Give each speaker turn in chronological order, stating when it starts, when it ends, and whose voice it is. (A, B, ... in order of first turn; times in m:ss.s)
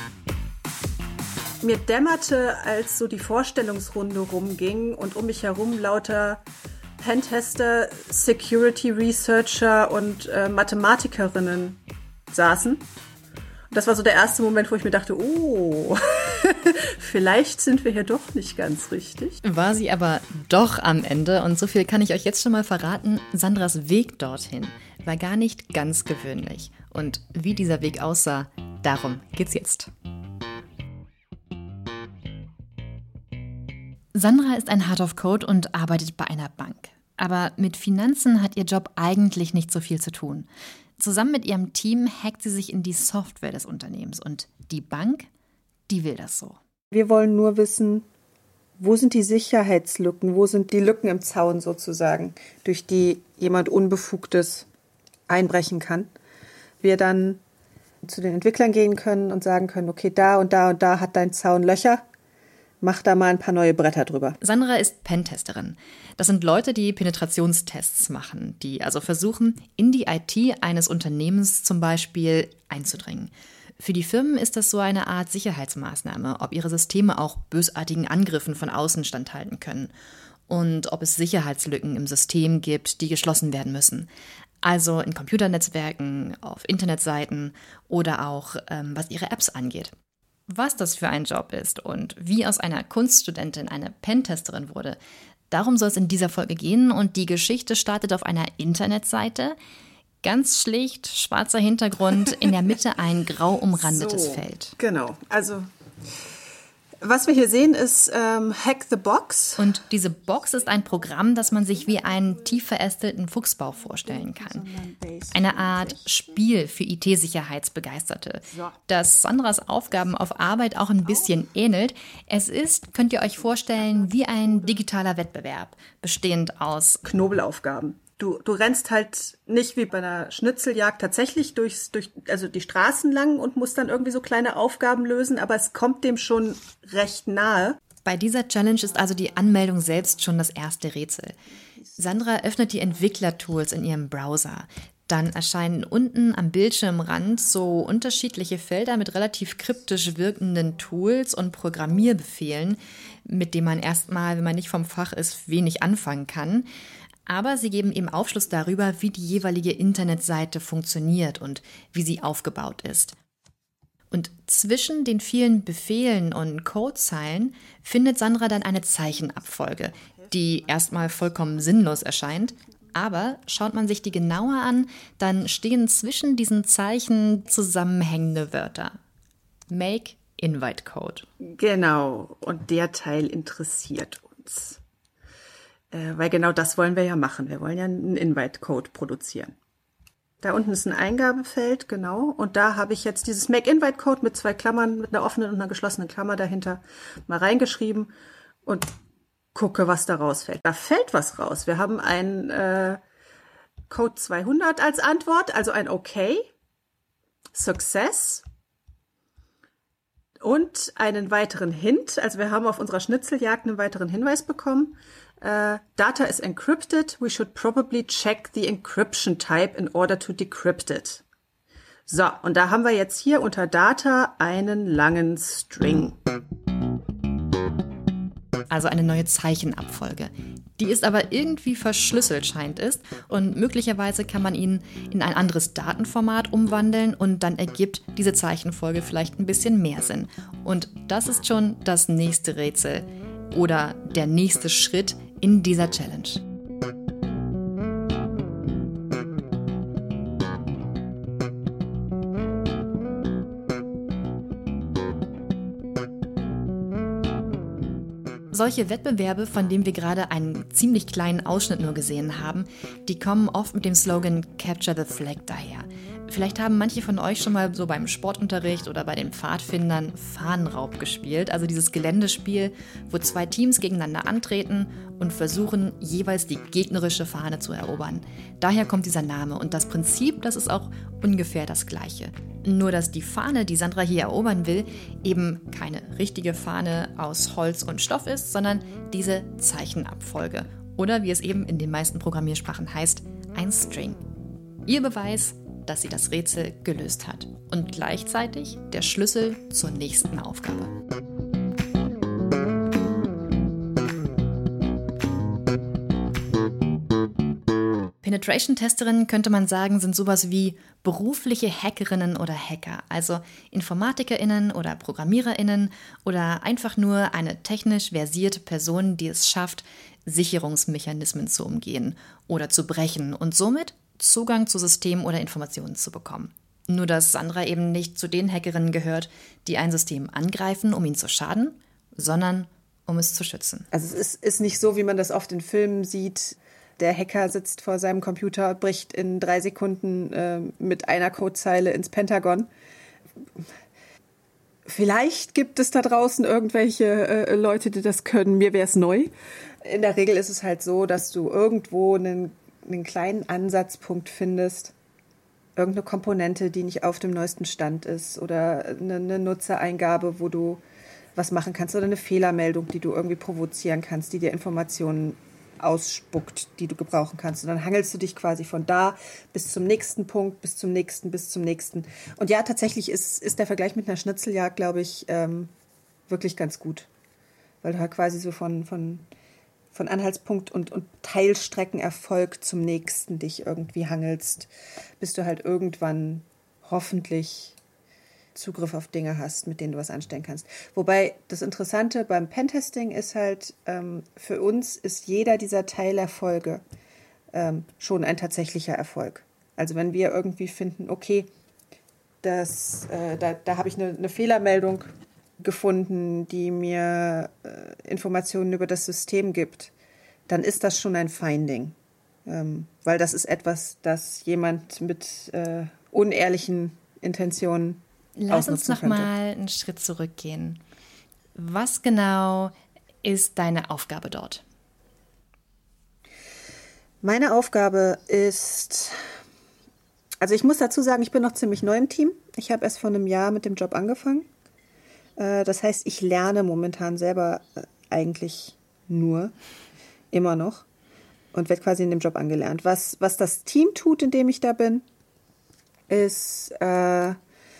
0:01.6-0:06.4 A
0:07.0-0:12.8 A
0:13.7-0:19.4 A
0:19.4-0:29.9 B
0:34.1-0:40.5 B
0:41.0-0:45.3 B
0:45.9-0:46.6 B
0:46.9-0:48.0 A
0:48.8-0:54.7 A
0:55.3-0:56.1 A
0:56.8-0:57.4 A
0:58.0-1:02.0 A
1:02.8-1:04.4 A
1:04.4-1:19.9 B
1:20.5-1:24.1 B
1:24.6-1:29.9 B
1:30.5-1:35.0 B
1:35.5-1:39.6 B
1:40.2-1:44.8 B
1:43.7-1:45.7 A
1:47.0-1:49.8 A
1:49.6-1:54.6 B
1:51.0-1:52.2 A
1:54.0-1:56.1 A
1:55.3-2:07.0 B
1:58.5-1:58.8 A
2:07.0-2:17.8 A
2:18.0-2:21.4 B
2:22.0-2:36.7 B
2:37.3-2:43.2 B
2:44.1-2:59.0 B
2:50.0-2:51.7 A
2:59.7-3:01.2 B
3:01.4-3:04.8 A
3:05.9-3:09.6 A
3:10.4-3:18.1 A
3:18.6-3:18.9 A
3:19.5-3:23.0 A
3:23.9-3:26.5 A
3:27.5-3:28.4 A
3:30.4-3:41.2 A
3:42.1-3:46.2 A
3:48.7-4:06.4 B
4:18.5-4:54.2 B
4:54.8-5:00.9 B
5:08.2-5:33.9 B
5:33.9-5:42.7 A
5:44.8-5:49.3 A
5:49.8-5:54.9 A
5:55.8-6:00.8 A
6:01.4-6:15.7 A
6:16.3-6:17.1 A
6:17.8-6:19.2 A
6:19.9-6:27.8 A
6:28.5-6:36.8 A
6:37.5-6:41.5 A
6:42.4-6:49.9 A
6:50.5-6:51.9 A
6:52.4-6:59.3 A
6:58.4-7:00.8 B
7:01.5-7:04.6 B
7:07.2-7:09.2 A
7:10.4-7:14.5 A
7:15.4-7:19.5 A
7:20.3-7:20.8 A
7:21.5-7:25.0 A
7:26.1-7:27.4 A